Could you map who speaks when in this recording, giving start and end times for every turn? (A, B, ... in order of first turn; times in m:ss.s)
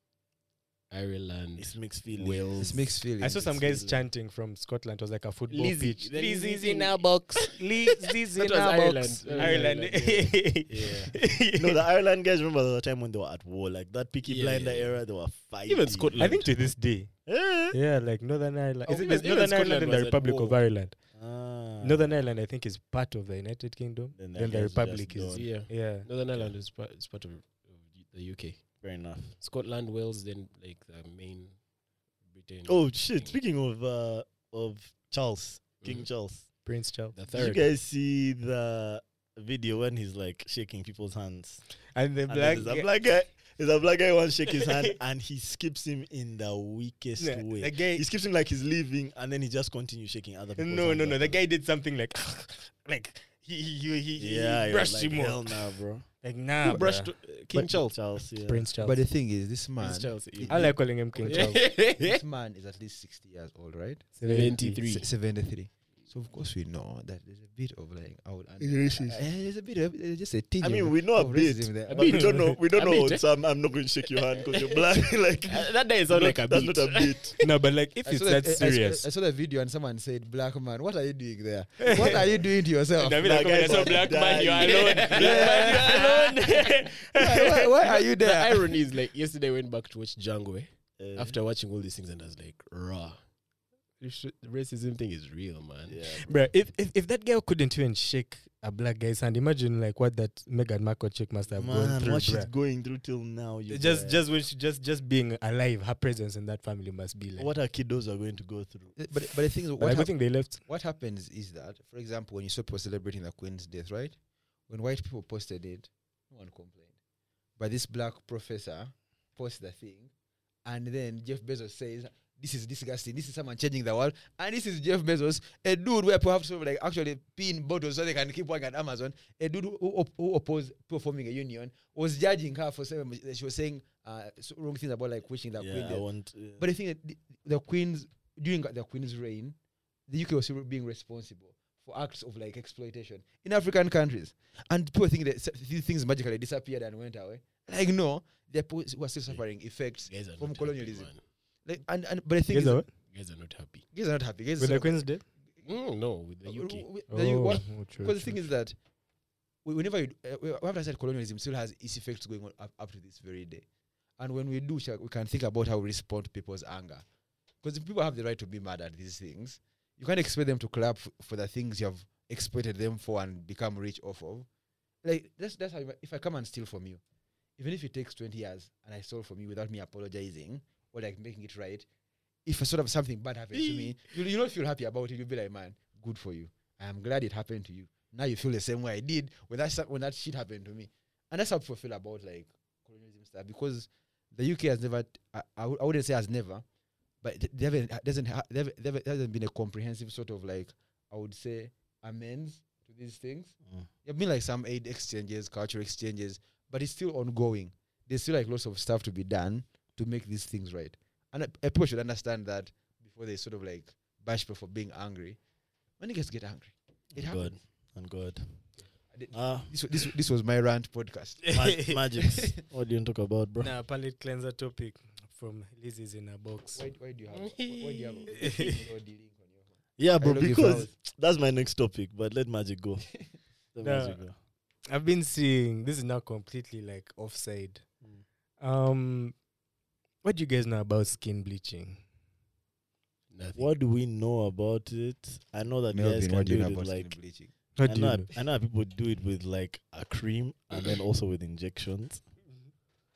0:00.9-0:02.9 A
0:01.6-0:02.8 B
0:02.6-0:03.5 C
0:03.2-0:11.8 D
0:03.4-0:04.1 B
0:05.5-0:07.5 A
0:08.1-0:11.2 A
0:09.3-0:09.7 B
0:11.5-0:16.5 B
0:14.2-0:15.0 A
0:15.7-0:16.6 A
0:16.2-0:21.2 D
0:17.3-0:17.8 B
0:18.9-0:20.6 A
0:21.1-0:22.2 B
0:21.8-0:26.1 D
0:24.2-0:25.7 B
0:25.3-0:31.6 A
0:28.8-0:29.4 B
0:32.2-0:33.4 A
0:32.7-0:36.5 B
0:35.8-0:36.1 A
0:36.6-0:37.4 D
0:37.1-0:37.7 A
0:37.3-0:41.7 B
0:41.9-0:42.9 D
0:42.3-0:51.4 B
0:47.2-0:48.0 D
0:50.6-0:57.9 D
0:54.2-0:56.1 B
0:56.6-0:58.0 A
0:57.5-0:58.7 B
0:58.4-0:59.0 D
0:58.8-1:12.1 C
0:59.8-1:02.2 A
1:00.5-1:01.6 D
1:04.2-1:04.8 D
1:04.2-1:05.1 A
1:08.7-1:09.2 A
1:10.6-1:17.4 B
1:11.9-1:13.3 A
1:12.1-1:12.6 D
1:15.4-1:17.4 A
1:17.4-1:19.1 D
1:18.0-1:23.9 C
1:21.8-1:22.2 D
1:23.0-1:27.7 D
1:23.2-1:25.7 B
1:24.0-1:26.4 A
1:25.1-1:26.1 C
1:27.1-1:28.8 C
1:27.8-1:33.3 A
1:31.0-1:31.4 B
1:34.0-1:36.0 A
1:35.9-1:36.4 B
1:36.2-1:42.5 D
1:41.5-1:44.2 B
1:43.7-1:47.5 D
1:47.4-1:49.0 B
1:49.0-1:54.2 C
1:49.8-1:50.6 D
1:54.7-1:56.9 C
1:57.6-2:00.1 C
2:00.6-2:19.6 C
2:15.6-2:16.6 B
2:20.1-2:33.0 C
2:30.1-2:31.2 A
2:32.5-2:32.9 D
2:33.0-2:33.8 A
2:33.9-2:35.3 C
2:34.6-2:35.2 D
2:35.6-2:36.9 A
2:36.4-2:38.8 C
2:37.1-2:38.5 D
2:39.6-2:43.7 C
2:44.2-2:47.0 C
2:47.6-2:54.5 C
2:55.0-2:57.0 C
2:57.6-3:01.9 C
3:02.4-3:16.6 C
3:17.2-3:35.4 C
3:36.0-3:37.6 C
3:37.2-3:38.8 B
3:39.1-3:41.6 C
3:39.3-3:39.8 B
3:41.4-3:42.1 D
3:41.5-3:43.7 B
3:43.6-3:46.8 D
3:46.8-3:50.9 C
3:47.3-3:48.4 A
3:48.4-3:48.8 D
3:50.0-3:54.4 B
3:53.8-3:54.2 D
3:54.9-3:57.8 D
3:58.6-3:59.4 D
4:00.2-4:02.0 D
4:03.3-4:03.7 A
4:03.6-4:07.2 B
4:05.9-4:07.5 C
4:07.8-4:08.3 D
4:07.8-4:12.2 B